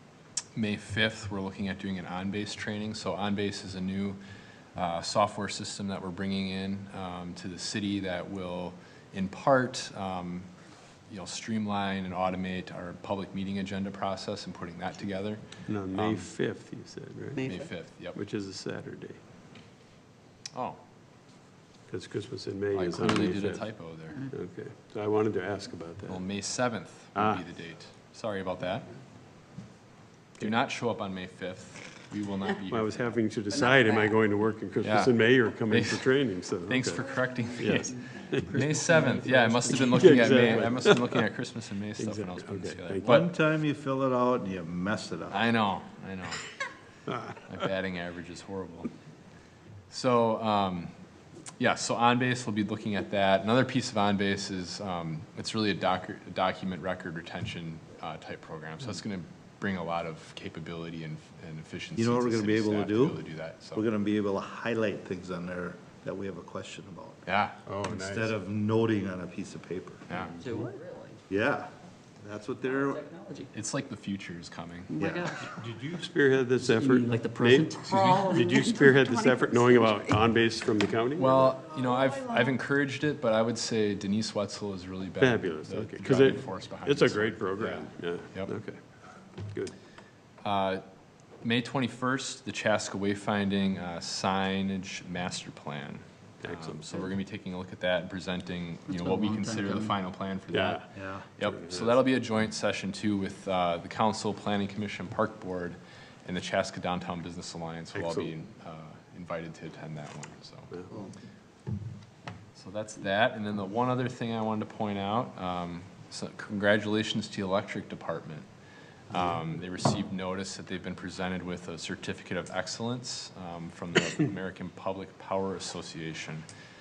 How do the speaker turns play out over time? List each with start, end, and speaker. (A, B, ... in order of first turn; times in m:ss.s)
0:00.6-0:04.2 A
0:04.8-0:10.5 A
0:11.1-0:16.3 A
0:15.7-0:17.4 B
0:17.4-0:17.7 C
0:17.4-0:18.2 A
0:18.1-0:19.2 B
0:20.5-0:20.8 A
0:21.9-0:23.7 B
0:22.8-0:24.3 A
0:24.2-0:26.3 B
0:26.1-0:28.9 A
0:27.2-0:27.4 B
0:30.4-0:33.0 A
0:32.7-0:41.3 B
0:33.6-0:34.1 C
0:34.8-0:36.1 A
0:36.7-0:43.3 A
0:37.9-0:40.8 C
0:42.0-0:43.2 B
0:43.0-0:45.5 D
0:45.3-0:46.4 A
0:47.1-0:47.4 B
0:47.4-0:48.9 A
0:49.9-0:50.9 A
0:51.6-1:03.8 A
1:02.0-1:07.3 D
1:07.3-1:07.6 A
1:07.7-1:08.3 B
1:07.9-1:10.1 D
1:10.1-1:10.4 A
1:10.1-1:10.6 B
1:10.4-1:11.2 C
1:11.3-1:13.1 D
1:12.9-1:13.5 C
1:13.5-1:15.0 A
1:14.9-1:15.5 C
1:15.0-1:15.4 D
1:15.5-1:21.5 B
1:16.7-1:20.1 C
1:21.2-1:28.5 A
1:25.2-1:28.8 B
1:30.4-1:30.8 A
1:31.4-1:50.8 A
1:36.4-1:37.1 B
1:38.9-1:40.0 C
1:40.5-1:40.9 B
1:40.9-1:41.3 D
1:41.4-1:42.0 B
1:47.9-1:48.3 B
1:52.6-1:58.5 A
1:59.1-2:06.5 A